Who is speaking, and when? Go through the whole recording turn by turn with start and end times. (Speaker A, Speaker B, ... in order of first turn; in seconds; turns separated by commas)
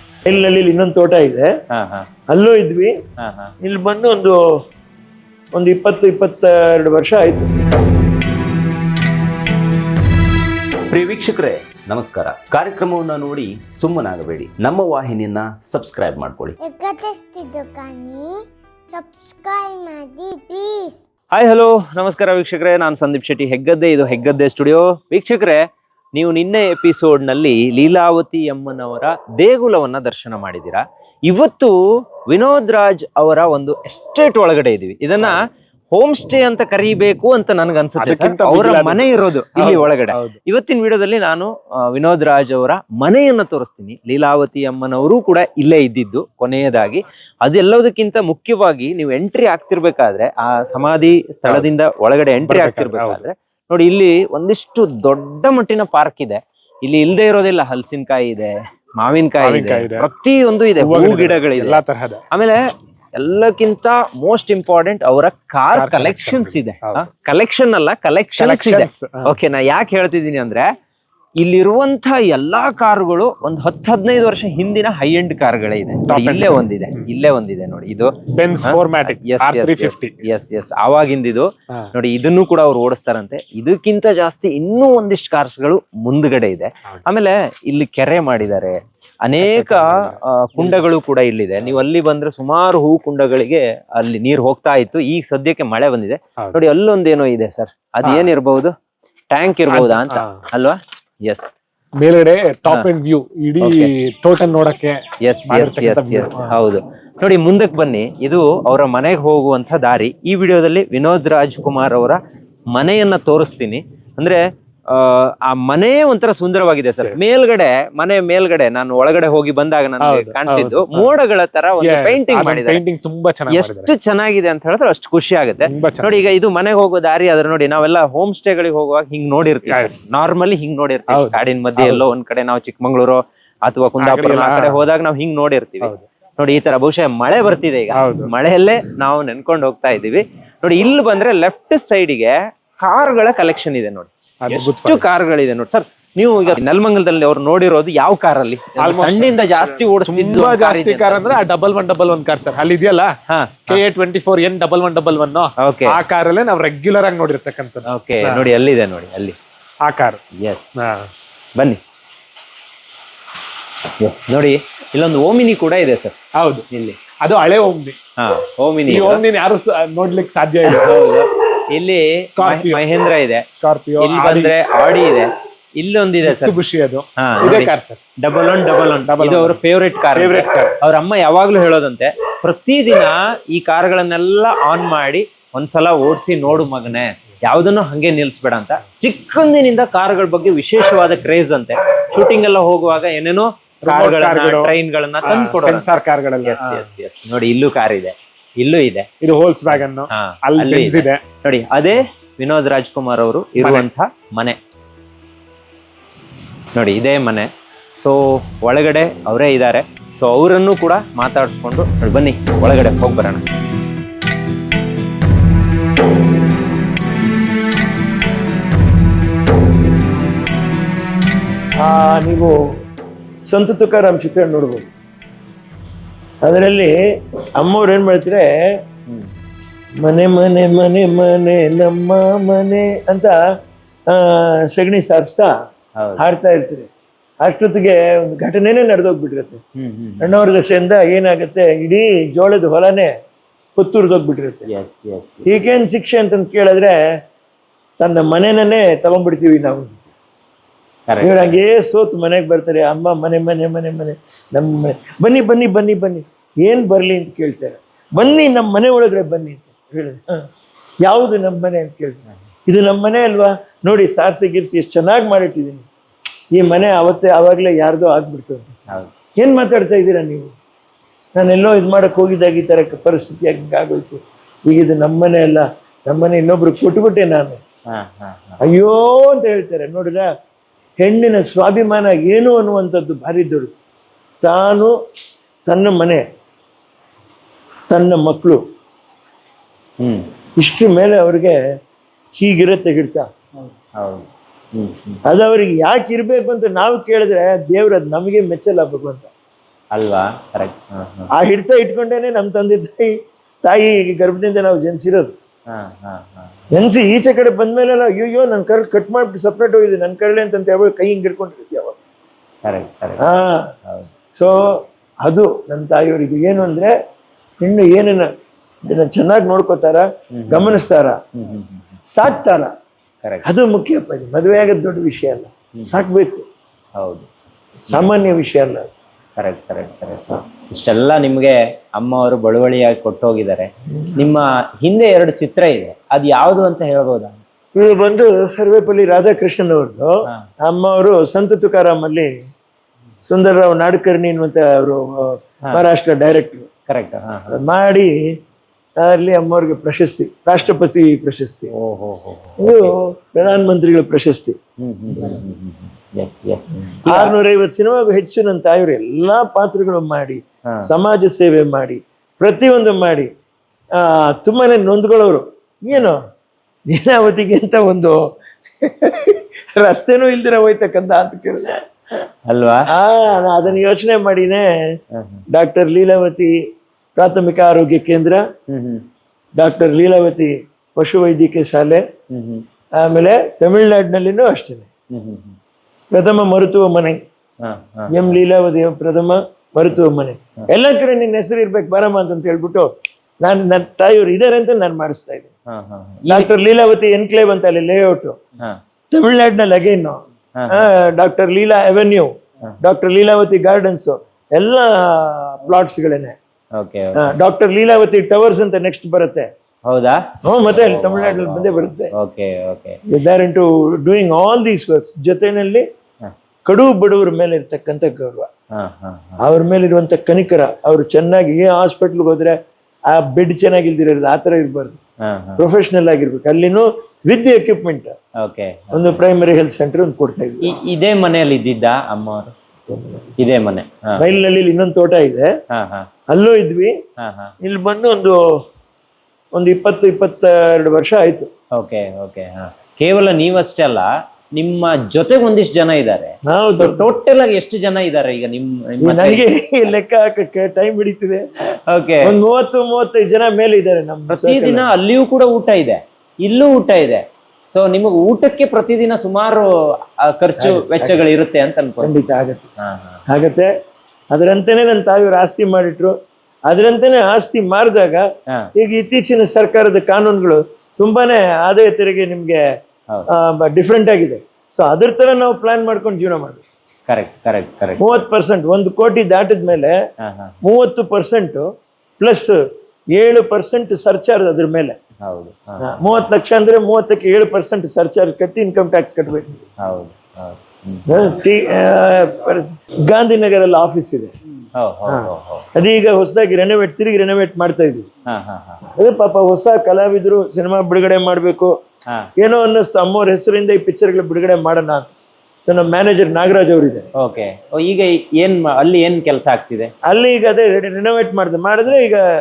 Speaker A: 0.2-1.5, Speaker B: 1.7-2.1, Speaker A: 2.3-2.9, Speaker B: 3.2-3.5, Speaker A: 3.6-4.4, Speaker A: 5.5-7.7, Speaker C: 10.9-16.6, Speaker D: 16.6-18.4, Speaker D: 18.9-21.0, Speaker B: 21.3-25.6, Speaker B: 26.1-35.4, Speaker B: 35.9-62.6, Speaker E: 38.0-40.4, Speaker E: 52.4-53.2, Speaker E: 59.4-60.1, Speaker E: 60.8-62.2, Speaker B: 63.1-70.7, Speaker E: 65.7-67.0, Speaker E: 68.4-69.3, Speaker B: 71.4-78.1, Speaker E: 76.1-76.7, Speaker E: 78.3-80.2, Speaker B: 78.6-98.7, Speaker E: 89.4-90.8, Speaker E: 98.0-98.3, Speaker B: 99.3-101.5, Speaker E: 99.7-100.3, Speaker E: 102.0-106.5, Speaker B: 103.6-103.9, Speaker B: 105.2-112.2, Speaker B: 112.7-122.8, Speaker E: 120.0-121.1, Speaker E: 121.8-123.9, Speaker B: 123.5-151.3, Speaker E: 125.7-126.3, Speaker E: 129.7-130.1, Speaker E: 131.1-132.0, Speaker E: 134.0-134.8, Speaker E: 138.0-138.3, Speaker E: 144.4-145.0, Speaker E: 148.8-153.1, Speaker B: 153.3-153.8, Speaker E: 153.7-158.5, Speaker B: 155.6-156.0, Speaker B: 157.9-159.4, Speaker E: 159.8-160.2, Speaker B: 160.3-160.7, Speaker E: 160.8-161.1, Speaker B: 164.0-166.2, Speaker E: 166.4-166.6, Speaker B: 166.7-167.0, Speaker E: 167.2-167.9, Speaker B: 168.2-169.2, Speaker E: 168.9-171.0, Speaker B: 170.6-173.4, Speaker E: 172.3-172.8, Speaker E: 173.6-174.6, Speaker B: 174.0-176.6, Speaker E: 176.2-178.0, Speaker B: 177.2-195.9, Speaker E: 179.1-179.6, Speaker E: 180.1-180.8, Speaker E: 193.8-196.9, Speaker B: 196.4-199.1, Speaker E: 199.2-201.2, Speaker B: 199.7-204.6, Speaker E: 203.6-203.9, Speaker B: 206.8-213.4, Speaker A: 221.8-222.6, Speaker A: 223.5-224.8, Speaker A: 226.4-226.9, Speaker A: 227.6-228.5, Speaker A: 230.0-233.3, Speaker A: 234.1-235.5, Speaker B: 236.0-236.2, Speaker A: 236.2-236.9, Speaker A: 237.4-239.6, Speaker B: 239.8-240.3, Speaker A: 240.2-243.1, Speaker A: 243.7-244.7, Speaker B: 244.7-245.4, Speaker A: 245.5-247.0, Speaker A: 248.0-250.1, Speaker B: 251.1-251.6, Speaker A: 251.2-260.4, Speaker A: 261.0-265.9, Speaker A: 266.5-268.7, Speaker A: 269.4-270.5, Speaker A: 271.3-277.6, Speaker B: 277.9-278.6, Speaker A: 278.6-280.3, Speaker A: 281.0-283.7, Speaker A: 284.4-284.9, Speaker A: 285.6-286.2, Speaker A: 287.9-288.6, Speaker B: 290.0-290.3, Speaker A: 290.6-291.6, Speaker A: 292.3-293.2, Speaker B: 294.0-295.2, Speaker A: 295.2-299.3, Speaker B: 299.9-301.3, Speaker A: 301.3-305.3, Speaker B: 305.7-306.5, Speaker A: 306.7-311.9, Speaker B: 312.6-313.2, Speaker A: 313.2-313.6, Speaker A: 314.3-314.6, Speaker A: 315.2-316.9, Speaker A: 317.6-318.3, Speaker A: 318.9-321.2, Speaker B: 320.4-320.8, Speaker B: 321.4-322.0, Speaker A: 322.1-322.7, Speaker A: 323.4-326.4, Speaker B: 327.0-327.3, Speaker A: 327.9-328.8, Speaker B: 329.4-337.4, Speaker A: 337.7-342.3, Speaker A: 343.2-346.7, Speaker B: 346.9-347.6, Speaker A: 347.5-348.3, Speaker A: 349.0-351.7, Speaker B: 351.7-352.9, Speaker A: 352.6-354.6, Speaker B: 354.8-357.3, Speaker A: 357.1-363.3, Speaker A: 363.9-366.2, Speaker A: 366.9-368.3, Speaker A: 368.8-371.8, Speaker B: 372.5-372.9, Speaker A: 372.9-374.7, Speaker B: 375.1-375.4, Speaker A: 375.5-376.6, Speaker A: 377.1-378.4, Speaker B: 378.7-379.0, Speaker A: 379.6-382.0, Speaker B: 382.3-382.6, Speaker A: 383.0-384.9, Speaker B: 385.1-385.6, Speaker A: 386.1-387.2, Speaker B: 387.6-388.3, Speaker A: 388.1-392.9, Speaker A: 393.4-395.5, Speaker B: 395.7-396.5, Speaker A: 396.2-398.4, Speaker A: 399.1-406.3, Speaker B: 400.6-400.9, Speaker B: 406.8-407.3, Speaker A: 407.1-409.5, Speaker B: 409.9-413.0, Speaker A: 410.4-412.1, Speaker A: 413.1-415.8, Speaker A: 416.6-418.5, Speaker B: 418.7-419.4, Speaker A: 419.4-422.6, Speaker A: 423.1-425.0, Speaker B: 425.2-425.6, Speaker A: 425.6-428.1, Speaker B: 428.4-429.2, Speaker A: 428.9-430.7, Speaker B: 430.6-432.5, Speaker B: 433.4-434.2, Speaker A: 434.2-435.5, Speaker B: 435.7-436.1, Speaker A: 436.3-436.9, Speaker B: 437.2-437.5, Speaker A: 437.6-438.4, Speaker A: 439.5-441.5, Speaker B: 441.8-449.5, Speaker A: 446.5-447.1, Speaker A: 449.0-451.4, Speaker B: 451.9-452.4, Speaker A: 452.2-454.9, Speaker B: 454.3-459.7, Speaker B: 460.2-462.1, Speaker A: 460.6-461.2, Speaker A: 462.0-462.7, Speaker B: 462.8-463.2, Speaker A: 463.3-463.7, Speaker A: 464.3-466.1, Speaker A: 466.7-468.2, Speaker A: 468.8-472.6, Speaker A: 473.3-476.6, Speaker B: 477.1-478.2, Speaker A: 478.0-479.9, Speaker B: 480.2-480.5, Speaker A: 480.6-481.6, Speaker A: 482.2-482.6, Speaker A: 483.1-485.0, Speaker B: 485.2-485.8, Speaker A: 485.8-489.6, Speaker B: 489.8-491.1, Speaker A: 491.1-494.3, Speaker B: 494.8-495.6, Speaker A: 495.1-498.1, Speaker B: 498.3-498.8, Speaker A: 498.9-501.7, Speaker A: 502.4-505.1, Speaker A: 505.7-507.1, Speaker B: 507.2-509.9, Speaker A: 510.1-512.2